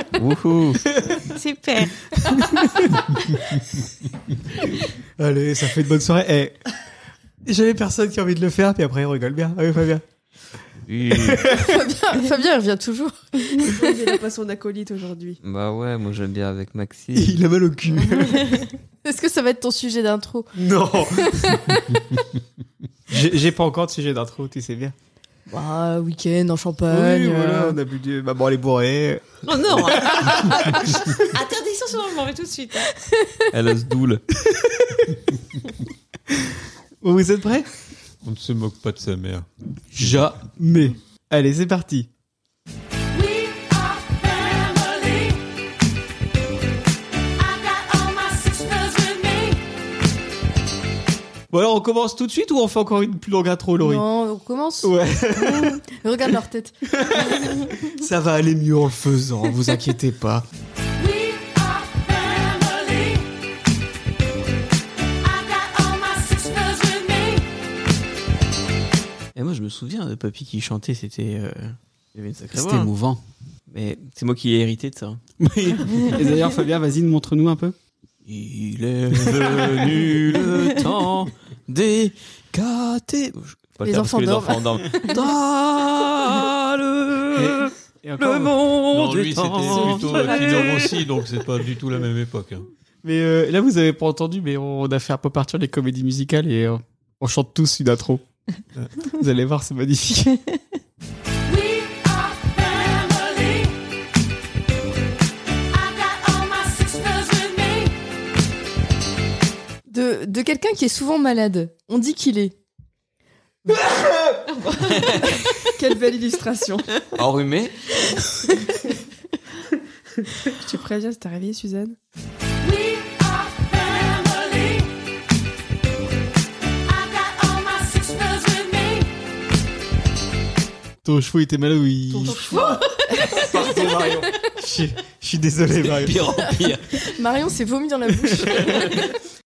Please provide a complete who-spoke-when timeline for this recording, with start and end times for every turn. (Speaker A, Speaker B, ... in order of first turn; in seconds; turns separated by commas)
Speaker A: 0.1-0.8, Speaker B: 1.3-2.0, Speaker C: 2.2-2.9, Speaker C: 5.2-6.6, Speaker C: 7.5-10.0, Speaker A: 10.9-11.4, Speaker C: 11.1-11.8, Speaker D: 11.5-14.1, Speaker E: 13.6-15.4, Speaker A: 15.4-17.4, Speaker C: 17.1-18.7, Speaker D: 19.0-20.5, Speaker C: 20.6-21.6, Speaker D: 21.1-22.0, Speaker C: 23.1-24.9, Speaker D: 25.5-27.8, Speaker C: 26.9-29.2, Speaker B: 29.4-32.9, Speaker D: 30.7-31.0, Speaker A: 33.5-34.2, Speaker C: 34.5-35.1, Speaker C: 37.0-37.7, Speaker F: 38.2-40.3, Speaker C: 39.9-42.1, Speaker C: 51.5-54.0, Speaker D: 53.8-56.8, Speaker C: 54.8-55.8, Speaker C: 56.9-60.5, Speaker A: 69.3-72.9, Speaker C: 72.5-73.2, Speaker A: 73.7-75.2, Speaker C: 75.4-77.8, Speaker A: 78.2-90.7, Speaker C: 79.1-80.8, Speaker D: 83.8-85.1, Speaker C: 87.3-88.7, Speaker F: 88.9-92.7, Speaker C: 90.3-90.8, Speaker C: 93.0-98.2, Speaker C: 99.1-100.4, Speaker D: 109.9-112.5, Speaker A: 114.9-115.2, Speaker E: 115.7-116.9, Speaker A: 117.2-117.8, Speaker E: 120.6-122.0, Speaker C: 131.0-132.8, Speaker B: 132.1-133.2, Speaker D: 133.2-133.6, Speaker C: 133.3-136.5, Speaker A: 135.8-137.0, Speaker D: 136.9-139.1